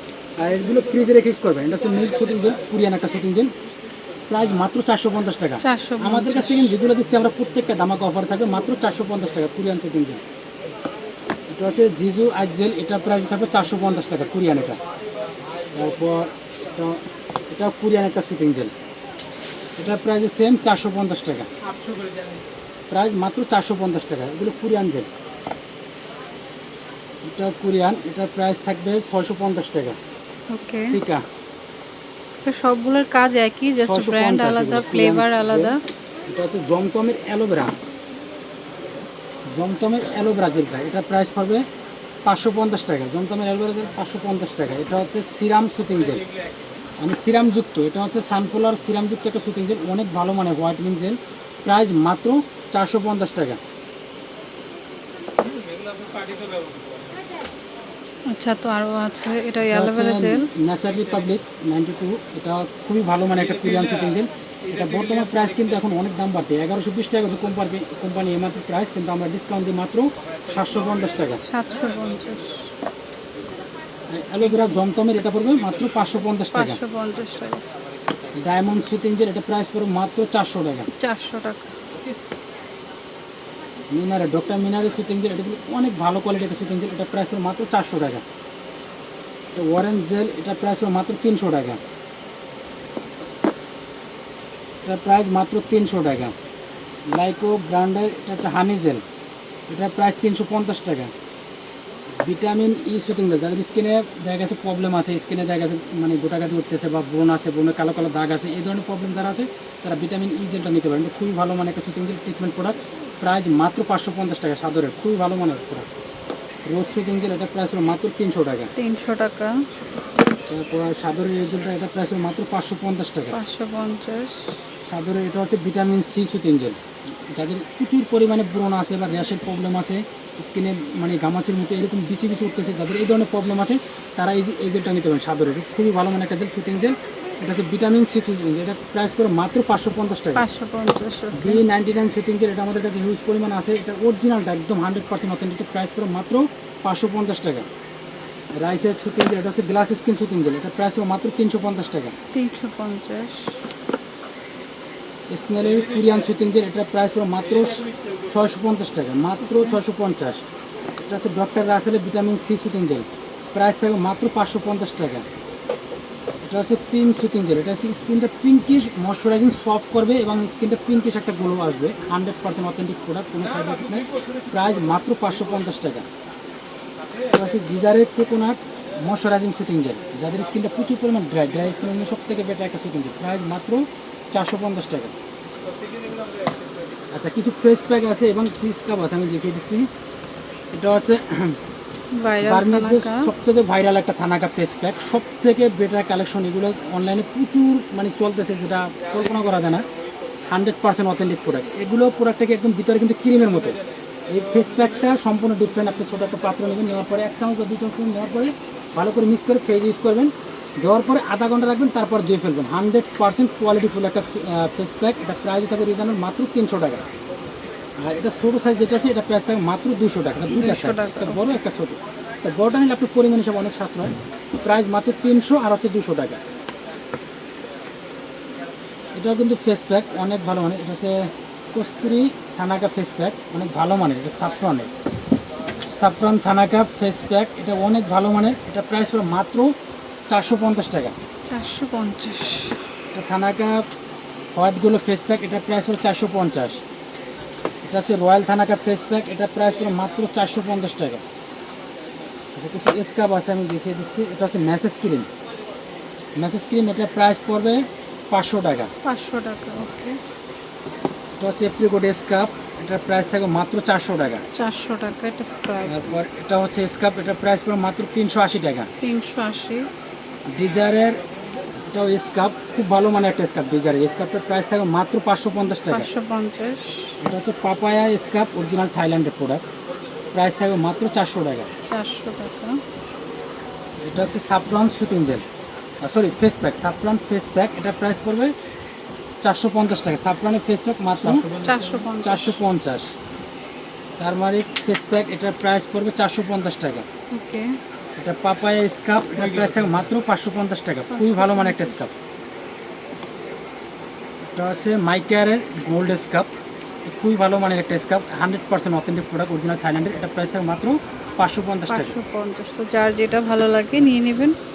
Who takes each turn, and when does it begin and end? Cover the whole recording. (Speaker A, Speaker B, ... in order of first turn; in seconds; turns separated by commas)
Speaker A: 0.4-3.5, Speaker A: 4.3-10.2, Speaker B: 5.6-6.7, Speaker A: 11.5-14.8, Speaker A: 15.7-18.7, Speaker A: 19.8-21.5, Speaker A: 22.9-25.1, Speaker A: 27.3-30.0, Speaker B: 30.5-31.0, Speaker A: 30.8-31.2, Speaker B: 32.5-35.8, Speaker A: 33.8-35.8, Speaker A: 36.3-37.7, Speaker A: 39.5-41.7, Speaker A: 42.2-46.3, Speaker A: 47.0-53.6, Speaker B: 58.3-60.5, Speaker A: 59.7-71.4, Speaker B: 71.4-72.7, Speaker A: 74.1-76.8, Speaker B: 76.5-77.6, Speaker A: 78.3-80.9, Speaker B: 81.0-81.7, Speaker A: 83.9-88.2, Speaker A: 89.5-91.8, Speaker A: 94.8-96.3, Speaker A: 97.1-99.0, Speaker A: 99.7-101.1, Speaker A: 102.2-115.9, Speaker A: 116.7-118.7, Speaker B: 118.8-119.7, Speaker A: 120.5-123.4, Speaker B: 123.3-124.5, Speaker A: 124.8-140.4, Speaker B: 140.3-141.6, Speaker A: 141.3-147.7, Speaker A: 148.6-152.1, Speaker B: 152.3-153.6, Speaker A: 155.3-160.4, Speaker B: 159.4-159.8, Speaker A: 161.0-165.3, Speaker A: 166.4-176.1, Speaker A: 177.3-185.1, Speaker A: 187.1-189.9, Speaker A: 190.7-191.6, Speaker B: 192.1-193.3, Speaker A: 192.4-199.9, Speaker A: 200.5-217.0, Speaker A: 218.0-226.4, Speaker B: 220.5-221.6, Speaker A: 229.2-234.9, Speaker A: 235.9-239.7, Speaker A: 240.3-241.2, Speaker B: 241.5-242.8, Speaker A: 243.1-243.8, Speaker A: 244.5-246.8, Speaker A: 247.8-251.2, Speaker A: 252.6-255.3, Speaker A: 256.4-258.9, Speaker B: 259.0-260.2, Speaker A: 261.4-264.4, Speaker B: 264.5-266.0, Speaker A: 265.8-268.9, Speaker B: 269.0-269.9, Speaker A: 270.5-271.2, Speaker A: 271.9-276.1, Speaker B: 275.9-277.2, Speaker A: 277.2-279.6, Speaker A: 280.3-281.7, Speaker B: 281.9-282.8, Speaker A: 284.1-285.4, Speaker A: 286.0-288.6, Speaker A: 289.4-293.1, Speaker B: 291.6-292.6, Speaker A: 294.2-297.1, Speaker B: 297.3-297.8, Speaker A: 298.2-302.1, Speaker B: 301.1-302.0, Speaker A: 304.5-306.5, Speaker A: 307.1-312.2, Speaker B: 311.9-314.6